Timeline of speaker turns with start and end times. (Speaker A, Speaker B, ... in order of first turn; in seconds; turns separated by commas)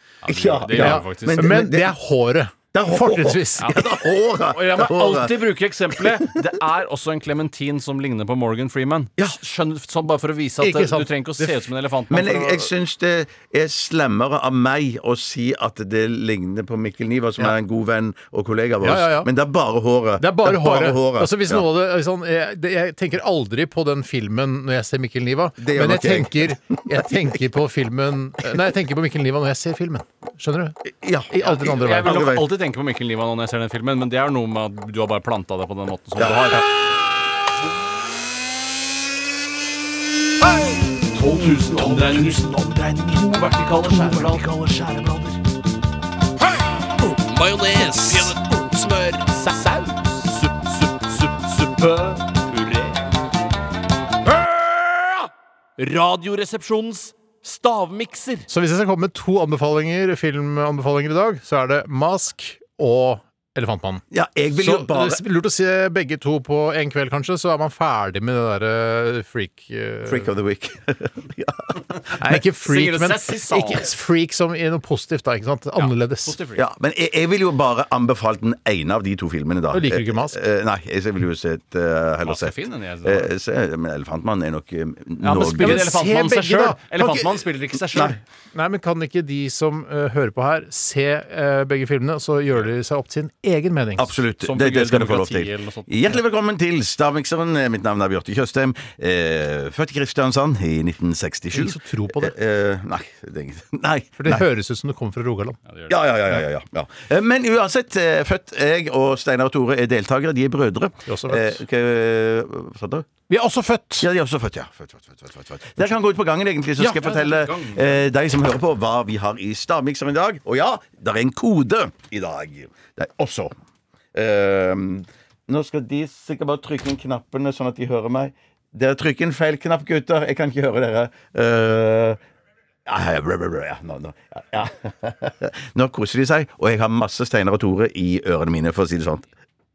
Speaker A: 0.2-1.6, Speaker B: 0.2-1.9, Speaker C: 0.7-3.8, Speaker B: 2.7-6.3, Speaker A: 4.5-12.7, Speaker C: 10.6-11.6, Speaker B: 12.1-21.6, Speaker C: 18.8-19.3, Speaker C: 20.2-30.8, Speaker B: 25.6-27.0, Speaker B: 30.9-32.5, Speaker C: 31.3-32.2, Speaker A: 31.4-36.6, Speaker B: 36.2-36.6, Speaker A: 41.0-45.4, Speaker B: 41.3-42.4, Speaker A: 46.9-53.0, Speaker A: 54.2-58.5, Speaker C: 58.5-70.3, Speaker B: 64.1-65.2, Speaker B: 70.0-71.9, Speaker A: 72.1-73.9, Speaker C: 72.2-76.3, Speaker A: 75.8-76.6, Speaker B: 76.5-85.9, Speaker C: 79.7-80.4, Speaker A: 82.2-83.3, Speaker A: 85.2-88.2, Speaker C: 85.6-87.2, Speaker C: 88.5-94.1, Speaker B: 94.0-104.4, Speaker A: 94.4-96.2, Speaker C: 101.5-102.3, Speaker C: 104.2-105.6, Speaker A: 105.7-106.0, Speaker B: 105.9-113.1, Speaker C: 111.0-111.6, Speaker C: 113.3-114.1, Speaker B: 114.0-123.5, Speaker A: 116.8-118.0, Speaker B: 124.1-132.2, Speaker B: 132.8-139.3